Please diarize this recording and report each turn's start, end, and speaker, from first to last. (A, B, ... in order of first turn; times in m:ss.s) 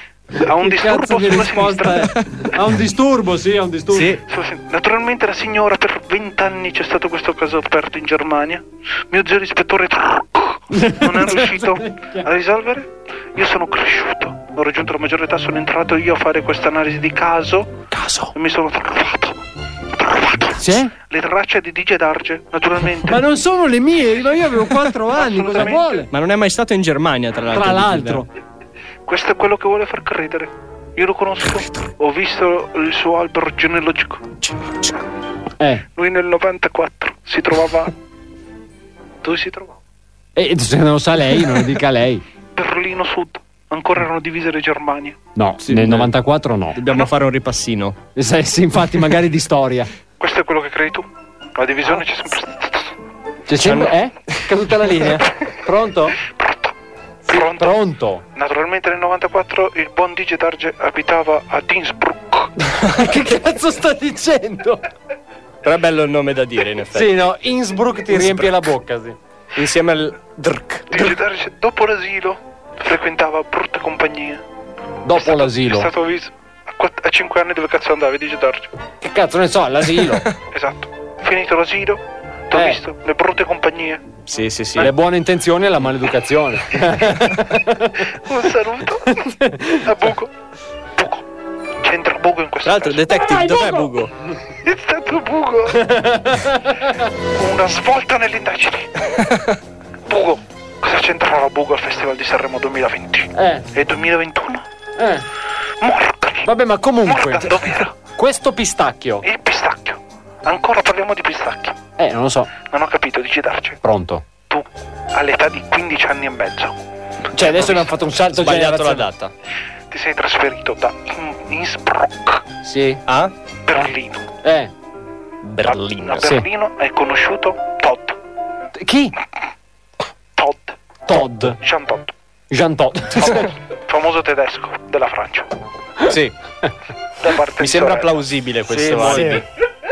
0:00.4-0:02.1 A
0:00.6-0:04.2 B
0:03.9-0:04.2 C
0:04.3-0:17.8 A
0:10.7-0:12.2 B
0:17.9-0:18.3 B
0:18.3-0:19.4 A
0:20.0-0:23.2 A
0:20.5-0:20.9 B
0:23.0-0:26.1 B
0:24.9-0:26.1 A
0:26.1-0:28.2 C
0:27.5-0:28.3 B
0:29.1-0:34.3 A
0:34.4-0:35.0 C
0:36.0-0:37.9 A
0:39.2-0:39.8 A
0:40.4-0:42.2 B
0:42.6-0:45.2 A
0:45.4-0:46.8 B
0:45.6-0:46.1 C
0:46.8-0:48.0 C
0:48.2-0:49.9 B
0:50.2-0:53.0 A
0:53.5-0:56.2 B
0:53.6-0:54.0 C
0:56.2-0:56.7 A
0:57.2-0:57.8 A
0:57.3-0:58.2 B
0:58.4-1:02.5 A
1:02.9-1:04.8 B
1:05.6-1:07.1 C
1:06.9-1:09.2 B
1:08.1-1:08.5 C
1:09.6-1:11.1 C
1:10.9-1:14.4 A
1:15.0-1:15.9 B
1:15.1-1:18.7 A
1:19.0-1:20.3 B
1:20.5-1:24.0 A
1:22.5-1:22.8 B
1:24.2-1:24.9 C
1:24.8-1:28.0 B
1:28.3-1:30.3 A
1:29.3-1:29.8 B
1:31.0-1:31.2 A
1:31.8-1:33.0 A
1:32.6-1:34.1 C
1:33.1-1:33.9 B
1:34.5-1:35.9 A
1:35.8-1:36.9 B
1:37.3-1:39.0 A
1:39.2-1:39.6 C
1:40.1-1:44.6 A
1:43.4-1:43.6 B
1:45.0-1:45.2 B
1:45.8-1:48.0 A
1:46.4-1:49.2 B
1:49.2-1:51.8 A
1:52.0-1:52.5 B
1:52.6-1:53.8 A
1:53.8-1:54.2 B
1:54.5-1:56.8 A
1:57.3-1:59.1 B
1:57.5-1:59.3 C
1:59.9-2:02.4 A
2:02.6-2:03.0 B
2:03.1-2:03.3 C
2:03.7-2:04.3 A
2:04.4-2:04.7 B
2:05.4-2:06.3 C
2:06.2-2:06.5 B
2:06.2-2:08.2 A
2:08.8-2:09.1 B
2:10.4-2:12.1 A
2:11.1-2:11.6 B
2:12.5-2:13.5 B
2:13.2-2:15.5 A
2:16.1-2:16.4 C
2:17.2-2:18.2 A
2:17.6-2:19.4 C
2:18.7-2:19.4 B